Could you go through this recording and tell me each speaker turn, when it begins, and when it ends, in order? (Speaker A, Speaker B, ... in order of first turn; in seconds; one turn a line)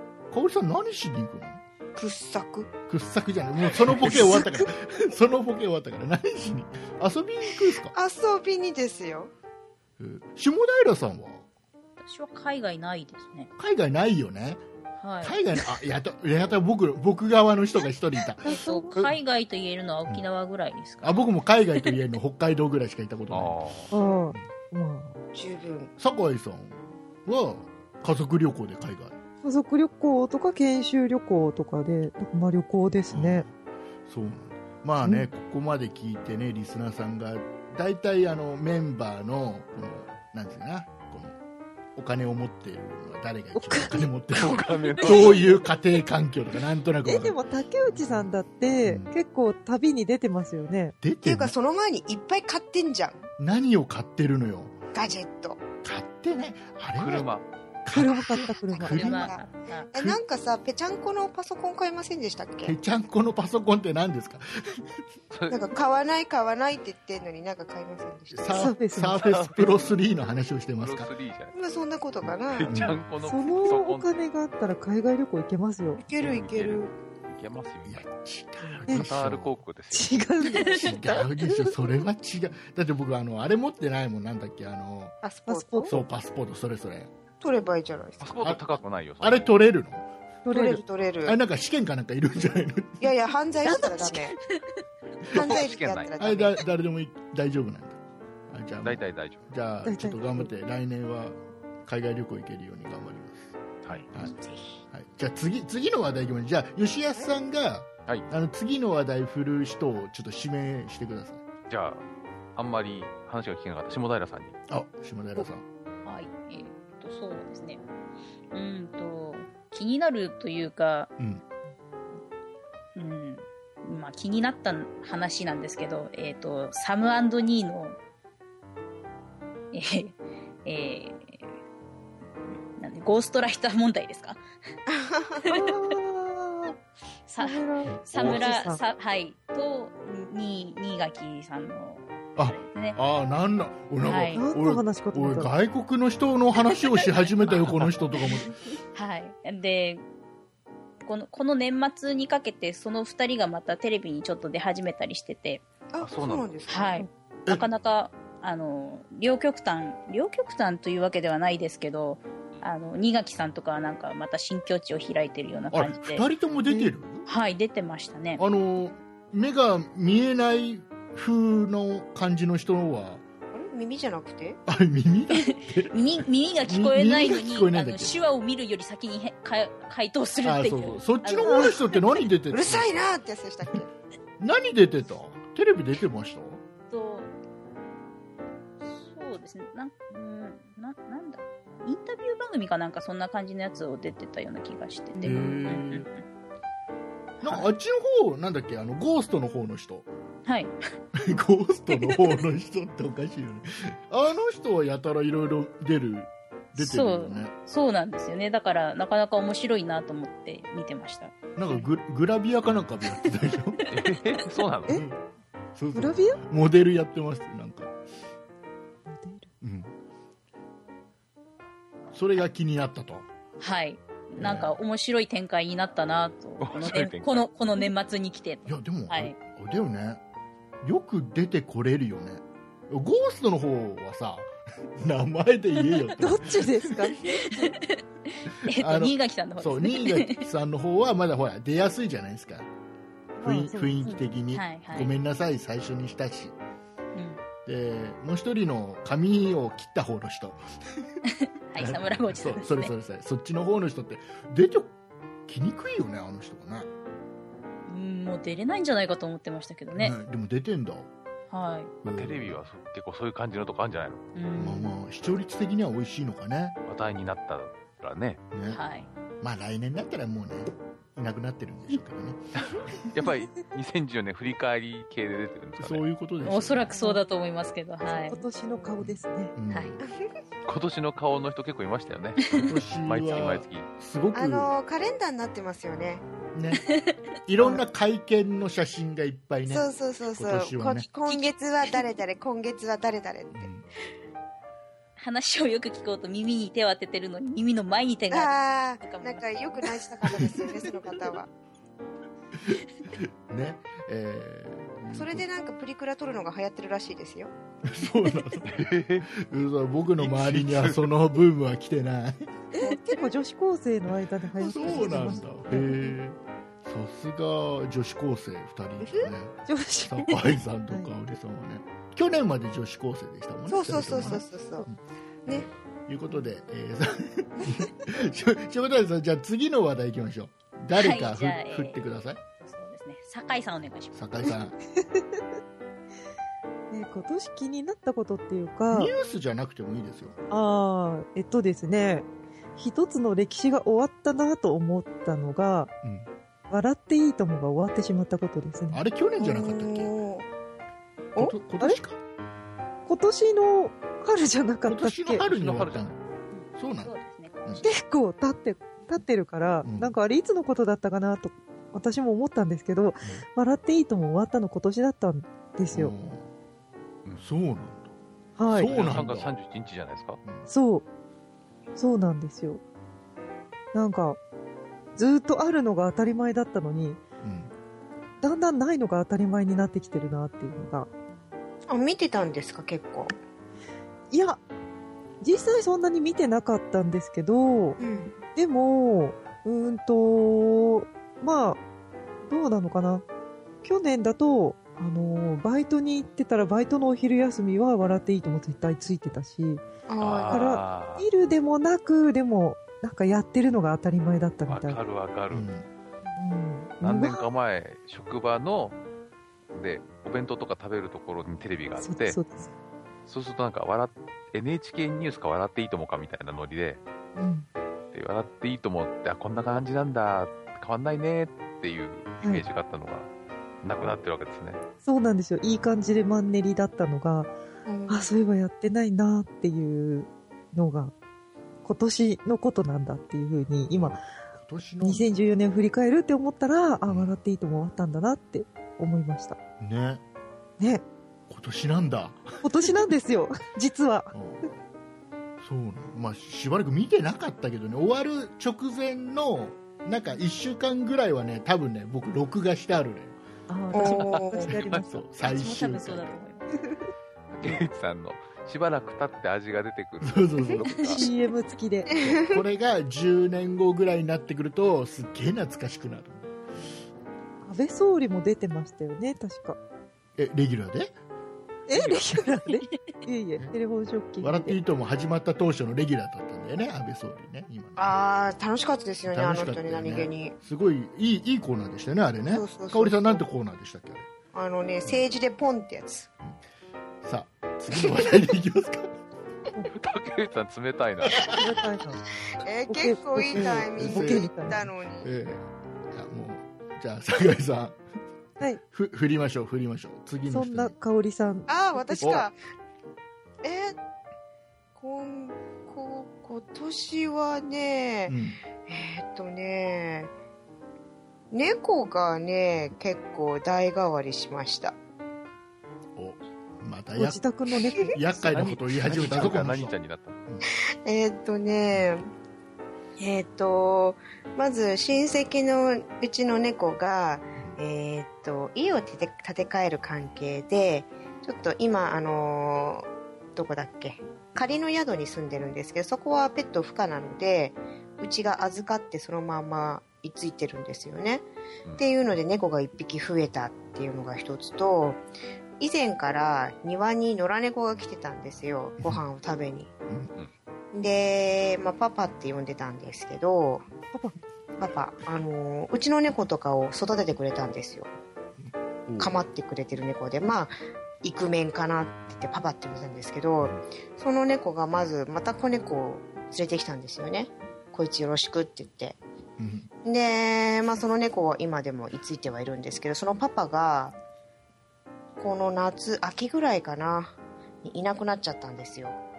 Speaker A: 0.3-1.6
Speaker B: 1.9-2.7
Speaker A: 2.9-7.9
Speaker C: 3.9-4.3
Speaker D: 4.1-4.4
Speaker B: 7.9-9.3
Speaker A: 10.0-11.4
Speaker E: 12.0-13.5
Speaker A: 13.6-14.6
Speaker E: 15.0-15.4
Speaker A: 15.2-19.2
Speaker D: 18.4-19.0
Speaker E: 18.4-21.3
Speaker A: 21.0-23.6
Speaker C: 23.3-23.9
Speaker D: 23.9-25.2
Speaker B: 25.3-25.9
Speaker A: 26.0-29.1
Speaker D: 29.4-33.5
Speaker A: 33.1-33.5
Speaker A: 34.1-41.4
Speaker D: 35.0-35.3
Speaker A: 42.0-47.4
Speaker D: 43.5-44.1
Speaker C: 44.3-45.5
Speaker D: 47.0-51.0
Speaker A: 47.9-48.3
Speaker A: 48.8-49.1
Speaker A: 51.0-51.5
Speaker B: 51.2-53.3
Speaker A: 53.4-54.8
Speaker B: 54.9-55.6
Speaker A: 55.8-57.3
Speaker C: 57.0-57.5
Speaker A: 57.9-59.4
Speaker D: 57.9-59.0
Speaker B: 58.3-59.4
Speaker E: 58.9-59.9
Speaker B: 59.9-62.8
Speaker A: 59.9-60.2
Speaker A: 62.6-64.9
Speaker C: 65.3-65.7
Speaker B: 65.5-68.7
Speaker A: 68.3-71.1
Speaker D: 68.5-69.3
Speaker C: 69.2-69.9
Speaker C: 70.8-71.6
Speaker B: 71.5-72.7
Speaker C: 72.5-74.1
Speaker A: 72.7-73.0
Speaker D: 73.2-76.0
Speaker B: 76.0-76.9
Speaker C: 76.1-78.1
Speaker A: 77.8-79.6
Speaker C: 78.8-80.2
Speaker D: 79.9-81.7
Speaker E: 80.6-81.0
Speaker A: 80.8-85.2
Speaker B: 85.2-86.0
Speaker D: 85.5-86.0
Speaker A: 85.9-87.1
Speaker B: 87.4-88.3
Speaker C: 88.2-89.5
Speaker A: 88.4-90.1
Speaker D: 90.5-90.8
Speaker B: 90.5-91.4
Speaker A: 90.6-93.1
Speaker B: 93.0-94.4
Speaker E: 93.7-94.8
Speaker B: 95.3-96.6
Speaker A: 95.3-95.6
Speaker C: 95.3-96.1
Speaker A: 96.2-103.6
Speaker C: 98.8-99.4
Speaker D: 99.8-100.5
Speaker B: 104.2-104.6
Speaker A: 104.9-111.4
Speaker C: 111.7-112.0
Speaker C: 112.6-114.6
Speaker A: 114.7-115.6
Speaker E: 116.0-117.8
Speaker E: 118.5-121.1
Speaker E: 123.0-128.0
Speaker E: 129.7-131.5
Speaker E: 132.8-134.4
Speaker B: 134.9-135.4
Speaker E: 135.4-135.9
Speaker D: 135.5-136.8
Speaker E: 137.3-143.0
Speaker D: 137.4-138.8
Speaker A: 137.9-138.6
Speaker A: 142.4-148.5
Speaker E: 144.0-144.5
Speaker D: 144.3-145.5
Speaker E: 148.3-150.1
Speaker E: 151.0-155.7
Speaker B: 155.9-157.1
Speaker C: 156.0-156.5
Speaker E: 156.7-166.2
Speaker A: 165.7-167.2
Speaker E: 167.3-168.4
Speaker A: 168.4-173.2
Speaker B: 173.5-174.6
Speaker A: 174.7-175.9
Speaker E: 175.3-182.1
Speaker A: 176.6-178.1
Speaker A: 180.4-182.9
Speaker B: 182.5-183.9
Speaker A: 184.4-186.6
Speaker E: 186.9-187.3
Speaker E: 188.8-196.2
Speaker A: 195.2-196.1
Speaker E: 197.4-197.7
Speaker A: 197.4-200.1
Speaker E: 200.5-200.7
Speaker A: 201.2-207.5
Speaker E: 201.9-202.4
Speaker E: 206.8-211.3
Speaker A: 211.6-213.8
Speaker C: 213.9-215.0
Speaker A: 214.9-215.2
Speaker A: 215.8-217.9
Speaker D: 215.9-216.4
Speaker D: 219.1-219.5
Speaker A: 219.6-219.9
Speaker A: 222.1-223.3
Speaker E: 223.6-229.4
Speaker A: 224.4-224.8
Speaker C: 226.6-227.4
Speaker A: 228.7-230.2
Speaker A: 230.8-236.9
Speaker D: 236.2-237.2
Speaker E: 237.2-240.5
Speaker A: 238.7-242.7
Speaker D: 243.4-244.1
Speaker A: 243.4-246.6
Speaker E: 244.1-245.1
Speaker E: 247.2-247.4
Speaker A: 247.7-251.1
Speaker E: 251.7-252.9
Speaker A: 251.8-254.9
Speaker A: 255.5-256.9
Speaker E: 257.9-260.2
Speaker A: 259.9-261.1
Speaker E: 261.5-261.9
Speaker A: 262.0-262.6
Speaker C: 262.1-264.2
Speaker E: 264.4-265.0
Speaker A: 264.6-266.8
Speaker C: 266.9-268.4
Speaker A: 268.5-268.8
Speaker E: 268.7-269.1
Speaker A: 269.4-272.4
Speaker C: 272.6-276.1
Speaker A: 275.8-277.0
Speaker E: 276.4-278.5
Speaker D: 276.9-277.2
Speaker D: 278.1-279.5
Speaker A: 279.0-280.0
Speaker E: 279.7-280.0
Speaker B: 280.0-280.3
Speaker C: 280.7-283.9
Speaker A: 282.5-284.7
Speaker B: 284.3-286.3
Speaker A: 286.5-286.8
Speaker E: 286.8-287.2
Speaker A: 287.5-291.1
Speaker B: 289.7-293.7
Speaker E: 291.3-292.0
Speaker A: 293.5-293.9
Speaker E: 295.2-299.9
Speaker B: 298.3-301.5
Speaker A: 302.6-305.5
Speaker B: 305.1-307.5
Speaker A: 307.9-312.5
Speaker C: 308.6-309.3
Speaker C: 310.2-311.0
Speaker D: 312.8-316.2
Speaker A: 314.6-332.4
Speaker D: 319.7-321.1
Speaker B: 323.7-324.9
Speaker E: 331.0-332.0
Speaker E: 332.6-334.2
Speaker A: 334.1-334.8
Speaker D: 335.0-335.4
Speaker D: 336.9-339.1
Speaker A: 338.9-340.4
Speaker D: 340.5-345.9
Speaker A: 346.0-346.3
Speaker D: 346.7-349.0
Speaker A: 348.9-350.1
Speaker B: 349.4-350.5
Speaker A: 351.4-352.2
Speaker D: 353.1-355.4
Speaker A: 354.9-356.2
Speaker C: 355.4-356.1
Speaker E: 356.5-357.9
Speaker A: 356.8-357.1
Speaker D: 357.8-366.1
Speaker A: 359.8-360.1
Speaker A: 365.9-366.5
Speaker A: 367.4-368.1
Speaker D: 368.6-369.0
Speaker A: 368.7-369.6
Speaker C: 368.8-370.4
Speaker D: 370.7-371.1
Speaker D: 372.0-372.8
Speaker D: 373.9-374.4
Speaker D: 375.2-377.2
Speaker A: 377.4-377.7
Speaker D: 378.4-381.1
Speaker B: 381.9-383.3
Speaker D: 384.3-384.6
Speaker D: 385.4-388.0
Speaker B: 388.0-388.3
Speaker D: 388.6-391.8
Speaker D: 392.5-393.2
Speaker D: 393.8-399.9
Speaker B: 400.1-400.7
Speaker C: 400.2-401.3
Speaker D: 400.5-405.0
Speaker C: 404.7-405.7
Speaker A: 405.5-405.9
Speaker D: 406.4-407.4
Speaker C: 407.0-409.0
Speaker C: 409.7-412.4
Speaker D: 412.0-412.7
Speaker C: 413.3-417.0
Speaker D: 417.4-417.7
Speaker C: 418.1-423.3
Speaker C: 423.8-424.8
Speaker D: 425.0-427.5
Speaker B: 427.9-428.3
Speaker D: 428.1-431.1
Speaker D: 431.8-434.2
Speaker A: 433.9-435.2
Speaker D: 435.0-439.6
Speaker A: 437.1-437.4
Speaker A: 439.8-440.2
Speaker A: 441.5-442.6
Speaker D: 442.6-444.3
Speaker A: 444.3-444.8
Speaker A: 445.6-453.4
Speaker D: 453.7-455.2
Speaker B: 453.9-454.7
Speaker C: 454.0-455.1
Speaker A: 454.9-456.4
Speaker E: 455.4-456.8
Speaker C: 457.5-461.3
Speaker A: 460.2-461.1
Speaker E: 461.0-461.3
Speaker D: 461.1-462.2
Speaker B: 462.1-462.6
Speaker A: 462.2-466.5
Speaker D: 467.6-469.8
Speaker A: 470.4-471.1
Speaker D: 471.9-474.8
Speaker C: 471.9-472.3
Speaker E: 472.8-473.1
Speaker A: 474.4-478.2
Speaker B: 478.0-480.6
Speaker A: 479.3-484.3
Speaker B: 482.5-483.4
Speaker B: 484.5-486.3
Speaker A: 487.2-489.1
Speaker C: 489.9-491.5
Speaker A: 491.2-491.6
Speaker D: 491.5-492.2
Speaker B: 492.5-495.3
Speaker D: 492.9-494.8
Speaker A: 493.6-498.0
Speaker A: 498.9-500.9
Speaker D: 500.5-502.4
Speaker B: 501.7-502.6
Speaker A: 502.2-502.5
Speaker B: 503.6-504.0
Speaker B: 505.0-510.3
Speaker A: 508.3-508.6
Speaker B: 511.5-515.0
Speaker A: 516.2-517.4
Speaker D: 517.2-518.4
Speaker A: 518.0-519.9
Speaker C: 518.4-520.4
Speaker B: 521.0-522.3
Speaker B: 523.2-541.5
Speaker B: 542.0-545.2
Speaker B: 545.8-549.9
Speaker B: 550.9-553.9
Speaker B: 554.8-558.1
Speaker B: 559.2-569.2
Speaker A: 569.6-569.9
Speaker B: 570.0-574.1
Speaker B: 575.4-579.2